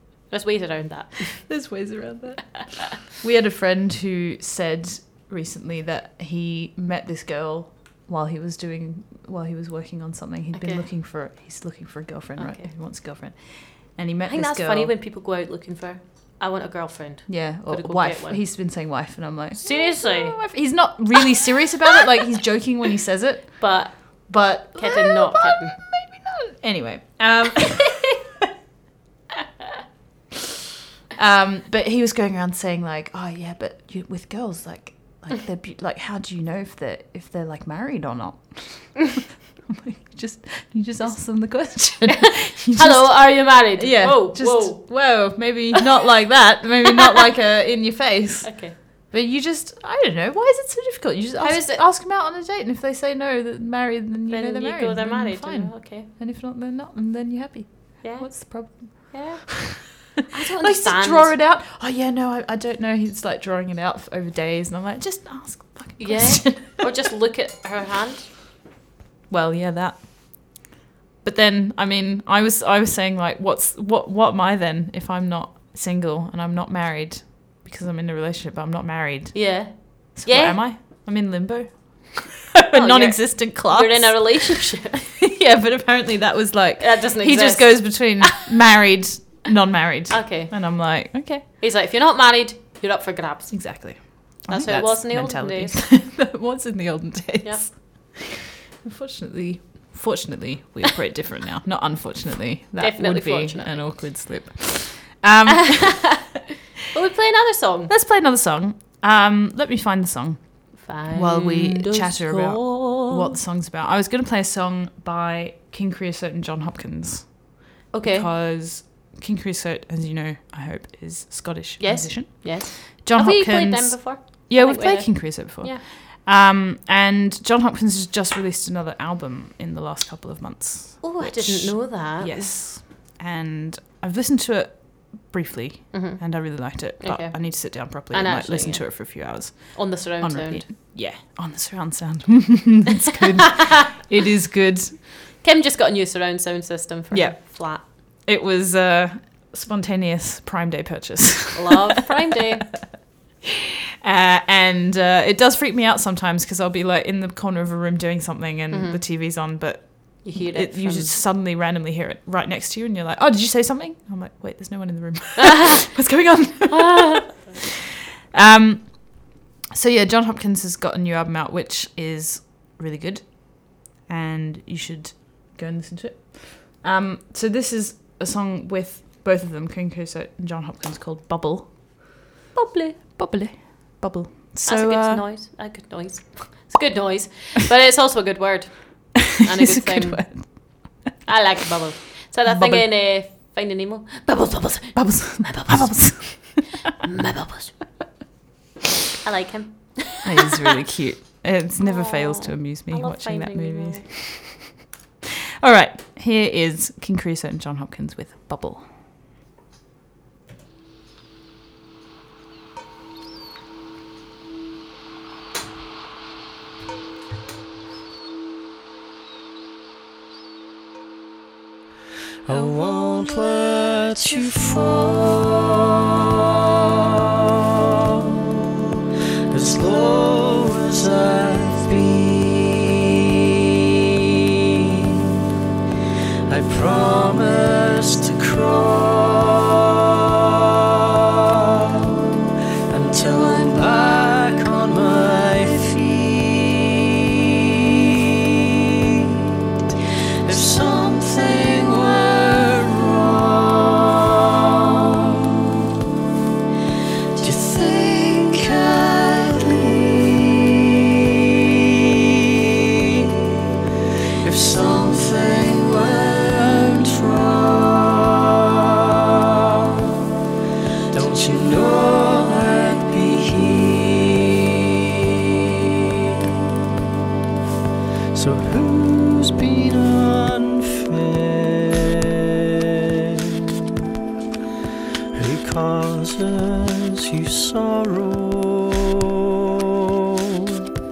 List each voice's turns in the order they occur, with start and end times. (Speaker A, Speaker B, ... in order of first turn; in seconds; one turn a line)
Speaker A: 0.3-1.5
Speaker B: 1.4-14.9
Speaker A: 10.5-10.9
Speaker A: 12.4-12.7
Speaker A: 14.3-18.4
Speaker B: 17.3-28.3
Speaker A: 19.6-20.6
Speaker A: 23.6-25.8
Speaker B: 31.1-59.9
Speaker A: 42.3-45.4
Speaker A: 48.4-48.8
Speaker A: 51.4-51.8
Speaker A: 54.3-56.1
Speaker A: 58.0-61.4
Speaker B: 60.6-66.9
Speaker A: 66.0-68.3
Speaker B: 69.3-70.6
Speaker B: 71.2-91.5
Speaker A: 79.3-80.6
Speaker A: 82.7-85.0
Speaker A: 86.8-88.4
Speaker A: 90.1-90.7
Speaker A: 91.6-95.8
Speaker B: 93.5-106.3
Speaker A: 97.4-97.7
Speaker A: 102.8-104.0
Speaker A: 105.5-106.2
Speaker A: 106.9-107.9
Speaker B: 107.9-145.0
Speaker A: 110.8-113.3
Speaker A: 117.9-118.3
Speaker A: 121.8-125.8
Speaker A: 131.0-132.6
Speaker A: 135.9-140.7
Speaker A: 145.4-147.8
Speaker B: 147.1-151.8
Speaker A: 151.6-152.8
Speaker B: 154.0-167.4
Speaker A: 158.7-159.0
Speaker A: 160.2-161.2
Speaker A: 165.4-165.8
Speaker A: 166.7-167.6
Speaker B: 168.3-182.2
Speaker A: 182.6-183.2
Speaker B: 183.2-185.3
Speaker A: 184.6-197.8
Speaker B: 189.6-191.0
Speaker B: 192.5-192.9
Speaker B: 194.9-196.7
Speaker A: 199.2-200.6
Speaker B: 200.2-204.7
Speaker A: 201.8-204.1
Speaker B: 205.6-208.9
Speaker C: 222.4-226.0
Speaker C: 228.2-228.6
Speaker C: 229.5-233.2
Speaker C: 234.9-235.3
Speaker C: 236.5-240.5
Speaker C: 241.1-247.1
Speaker C: 249.1-249.4
Speaker C: 250.4-255.8
Speaker C: 257.4-260.7
Speaker C: 264.4-268.6
Speaker C: 271.1-274.9
Speaker C: 278.3-283.8
Speaker C: 285.3-289.4